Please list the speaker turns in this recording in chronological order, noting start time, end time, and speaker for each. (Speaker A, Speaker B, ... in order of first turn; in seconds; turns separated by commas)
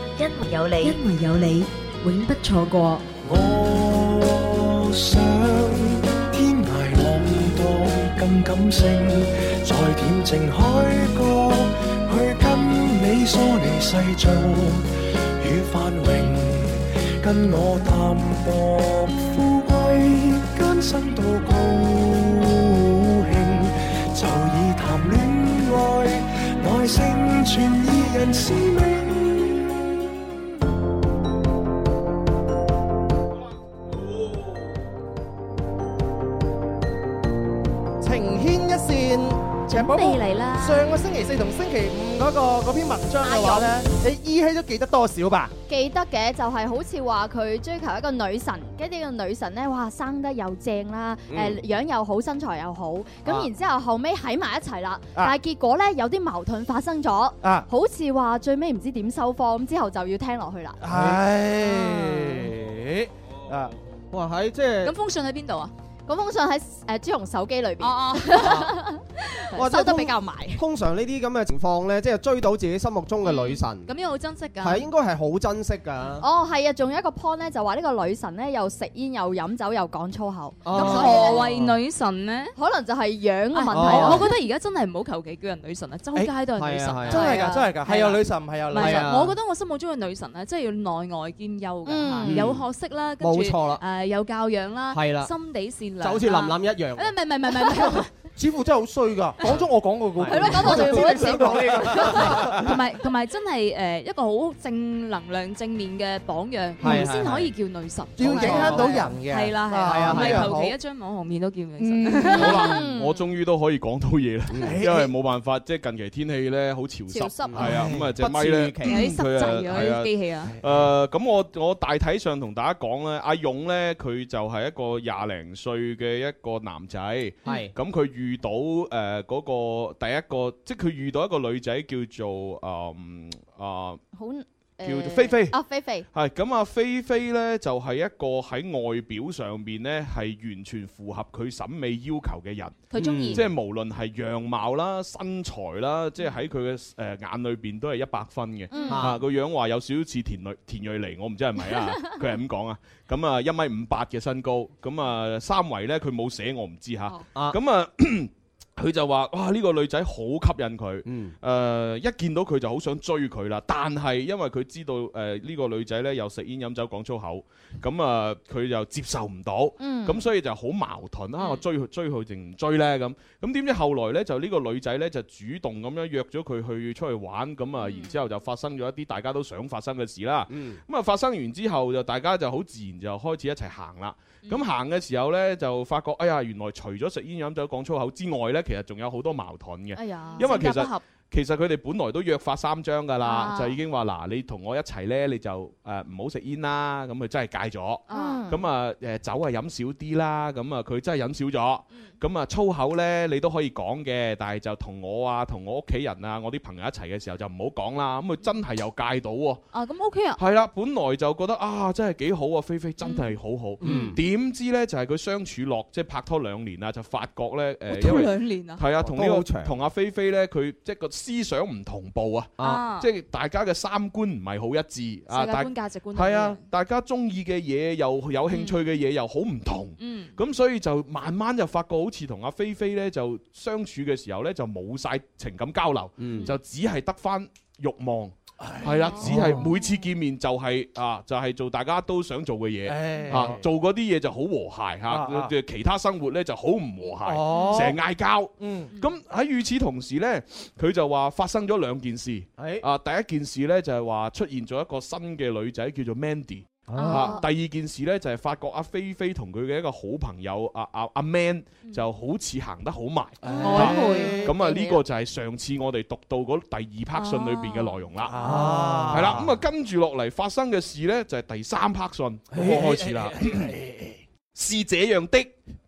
Speaker A: 0.8-3.1, Speaker B: 3.2-29.6, Speaker C: 38.0-45.5, Speaker D: 39.7-40.9, Speaker E: 43.2-43.8, Speaker E: 45.7-60.8, Speaker F: 51.3-51.6, Speaker C: 57.4-57.7, Speaker C: 60.8-63.7, Speaker F: 60.9-61.2, Speaker F: 64.1-64.9, Speaker D: 64.8-65.7, Speaker E: 66.1-69.0, Speaker D: 67.8-68.7, Speaker E: 69.5-70.6, Speaker F: 69.5-73.9, Speaker D: 73.2-74.9, Speaker F: 74.6-76.2, Speaker E: 76.2-81.5, Speaker F: 80.6-81.7, Speaker D: 80.7-82.5, Speaker E: 82.5-84.3, Speaker D: 83.5-87.5, Speaker F: 83.7-84.3, Speaker F: 86.5-87.3, Speaker C: 87.1-89.1, Speaker E: 87.1-87.8, Speaker D: 88.7-98.1, Speaker F: 88.7-89.3, Speaker E: 91.8-92.4, Speaker F: 92.2-92.6, Speaker F: 93.2-93.8, Speaker F: 94.9-95.3, Speaker F: 96.0-97.1, Speaker C: 98.3-102.6, Speaker F: 100.2-101.3, Speaker E: 100.3-102.3, Speaker D: 100.3-112.8, Speaker F: 106.8-107.5, Speaker C: 108.2-110.7, Speaker F: 108.2-109.1, Speaker F: 109.8-110.5, Speaker C: 111.8-112.4, Speaker E: 112.3-113.2, Speaker G: 112.3-134.0, Speaker F: 114.5-114.8, Speaker C: 114.6-115.1, Speaker E: 117.1-117.7, Speaker F: 117.5-119.1, Speaker C: 117.6-118.1, Speaker D: 118.8-120.5, Speaker F: 127.4-127.7, Speaker E: 134.1-136.1, Speaker G: 134.8-135.6, Speaker G: 136.1-209.6, Speaker D: 142.9-143.5, Speaker F: 142.9-143.4, Speaker E: 148.7-149.1, Speaker F: 148.8-149.2, Speaker F: 161.0-161.3, Speaker E: 169.8-170.3, Speaker D: 171.4-171.6, Speaker F: 180.5-180.8, Speaker E: 190.0-190.6, Speaker D: 190.2-191.0, Speaker D: 193.2-193.8, Speaker D: 198.1-198.4, Speaker E: 198.1-198.6, Speaker D: 209.7-210.4, Speaker G: 210.4-268.4, Speaker D: 213.0-214.1, Speaker F: 213.8-214.2, Speaker D: 217.9-218.8, Speaker F: 219.0-219.7, Speaker F: 222.6-222.8, Speaker D: 222.6-223.1, Speaker D: 225.3-226.6, Speaker D: 228.5-228.8, Speaker D: 230.0-230.3, Speaker F: 236.2-236.5, Speaker C: 238.6-239.7, Speaker D: 238.8-239.2, Speaker C: 242.8-243.6, Speaker C: 245.1-245.5, Speaker C: 247.2-248.0, Speaker C: 248.6-248.9, Speaker F: 252.6-252.8, Speaker F: 256.9-257.1, Speaker D: 257.0-257.4, Speaker E: 257.1-257.4, Speaker C: 263.4-264.5, Speaker D: 263.6-264.5, Speaker E: 264.2-265.0, Speaker D: 267.1-268.1, Speaker C: 268.3-269.6, Speaker F: 268.4-269.4, Speaker G: 269.1-273.7, Speaker C: 272.5-274.1, Speaker G: 274.5-275.5